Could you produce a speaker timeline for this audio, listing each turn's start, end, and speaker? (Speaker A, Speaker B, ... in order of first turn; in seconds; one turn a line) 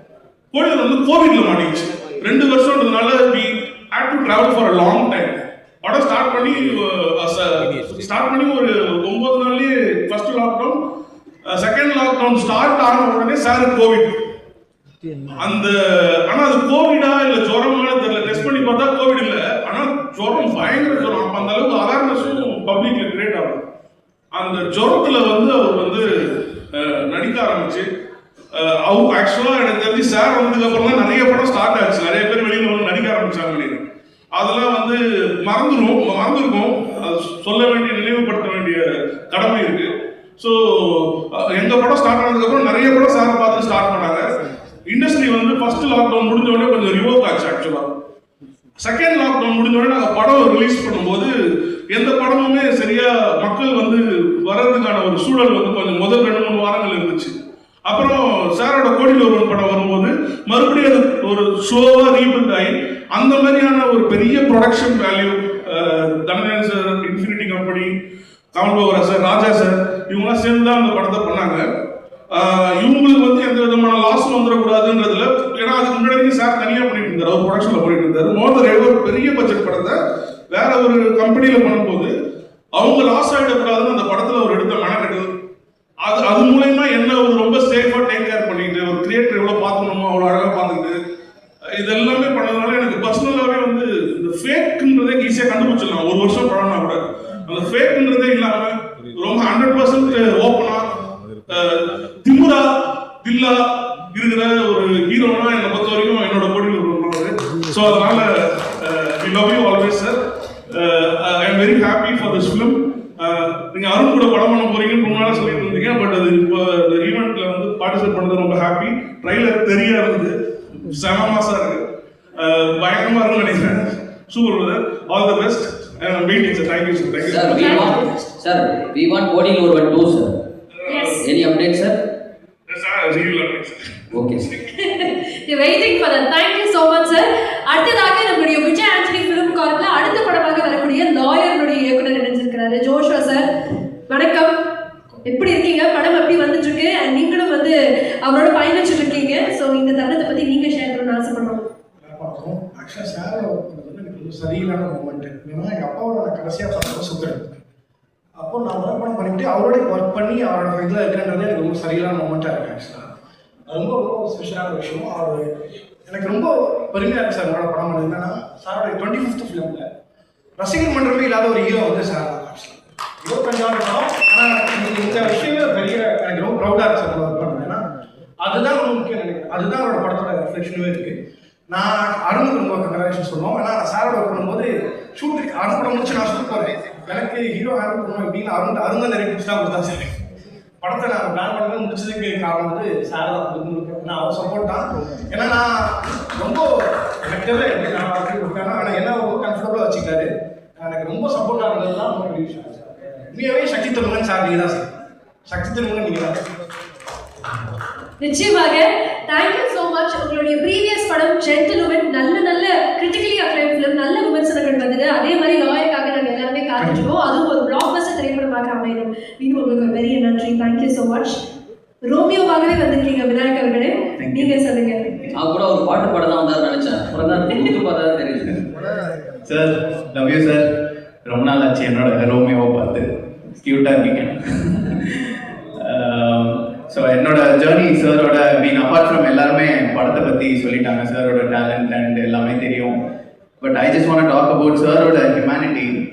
Speaker A: 0.5-10.8
Speaker A: 11.4-14.1
Speaker A: 15.3-15.8
Speaker A: 16.3-23.6
Speaker A: 24.3-27.8
Speaker A: 28.5-33.8
Speaker A: 34.3-44.2
Speaker A: 44.9-47.9
Speaker A: 48.8-51.3
Speaker A: 51.9-57.3
Speaker A: 57.8-67.9
Speaker A: 68.5-71.6
Speaker A: 72.3-80.0
Speaker A: 80.5-82.1
Speaker A: 82.7-85.3
Speaker A: 86.0-91.0
Speaker A: 91.8-110.1
Speaker A: 110.7-121.8
Speaker A: 122.4-127.8
Speaker B: 127.3-130.3
Speaker C: 127.6-128.0
Speaker A: 130.8-131.2
Speaker C: 130.9-131.2
Speaker B: 131.2-132.0
Speaker A: 132.7-134.5
Speaker B: 134.1-134.4
Speaker C: 134.7-143.5
Speaker C: 144.1-144.5
Speaker C: 145.2-151.6
Speaker D: 152.0-157.6
Speaker D: 158.3-163.1
Speaker D: 163.7-165.4
Speaker D: 166.1-169.8
Speaker D: 170.6-177.8
Speaker D: 178.4-181.1
Speaker D: 181.7-190.1
Speaker D: 190.8-196.7
Speaker D: 197.2-204.8
Speaker D: 205.5-206.4
Speaker C: 208.2-221.4
Speaker C: 222.0-225.0
Speaker E: 224.2-224.6
Speaker B: 225.3-228.5
Speaker E: 229.4-230.7
Speaker E: 231.2-233.1
Speaker E: 233.6-235.0
Speaker E: 235.8-243.0
Speaker E: 243.6-245.9